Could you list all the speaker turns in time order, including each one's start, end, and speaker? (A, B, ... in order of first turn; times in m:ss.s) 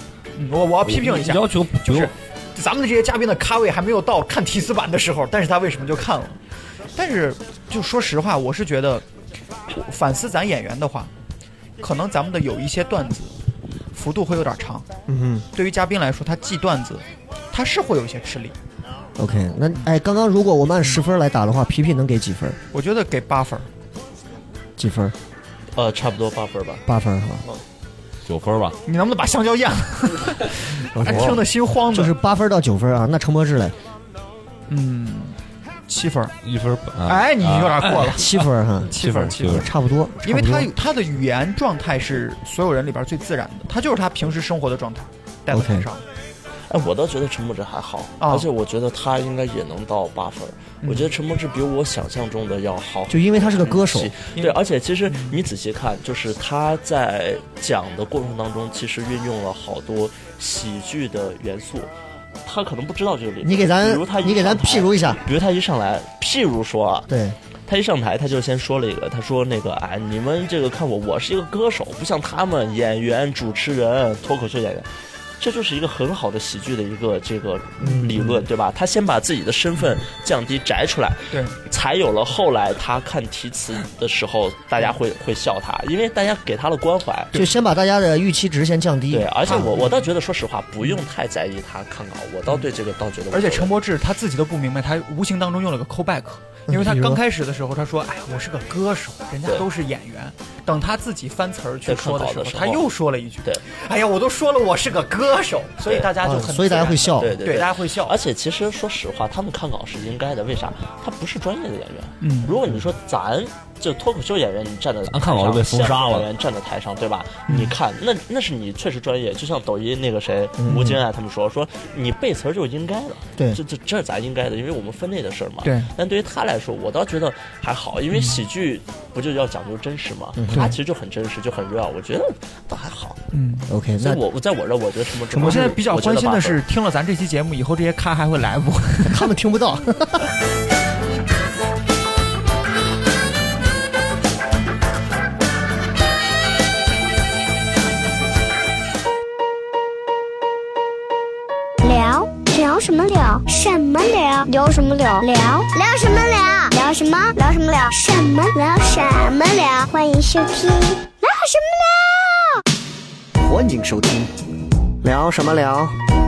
0:00.4-0:06.4 A
0:00.8-0:02.1 B
0:07.0-0:09.0 A
0:09.7-0:11.1 A
0:11.8-0:13.3 A
0:13.9-0:14.9 A
0:15.1-0:15.4 C
0:15.5-0:18.6 A
0:19.2-0:22.6 C
0:22.7-0:23.7 A
0:24.8-0:25.1 C
0:25.8-0:26.8 D
0:26.8-0:27.4 C
0:28.2-0:28.8 B
0:28.8-0:32.1 A
0:30.9-0:33.7 C
0:34.7-0:36.4 A
0:36.4-0:38.2 B
0:37.0-0:39.7 A
0:38.1-0:40.7 C
0:38.9-0:39.7 B
0:40.2-0:46.0 A
0:45.5-0:45.9 C
0:46.7-1:01.9 D
0:48.2-0:48.5 A
0:50.8-0:51.1 A
0:53.1-0:54.1 C
0:55.1-0:55.4 A
1:02.4-1:07.1 D
1:03.4-1:05.2 C
1:07.1-1:07.4 C
1:07.7-1:27.3 D
1:17.8-1:18.4 C
1:21.3-1:21.6 A
1:27.3-1:29.7 C
1:29.1-1:33.7 D
1:29.4-1:30.0 A
1:33.3-1:48.1 A
1:36.7-1:37.2 C
1:41.8-1:42.8 D
1:46.2-1:47.4 C
1:47.2-2:13.2 D
1:52.2-1:52.6 A
1:55.1-1:56.3 B
1:57.5-1:57.8 A
2:00.6-2:01.0 C
2:05.6-2:05.9 A
2:08.1-2:08.4 A
2:10.4-2:10.7 C
2:13.3-2:13.7 A
2:13.7-2:14.2 C
2:14.0-2:16.6 D
2:15.3-2:19.3 A
2:19.0-2:20.3 C
2:31.8-2:42.6 E
2:43.4-2:44.3 C
2:45.0-2:45.9 C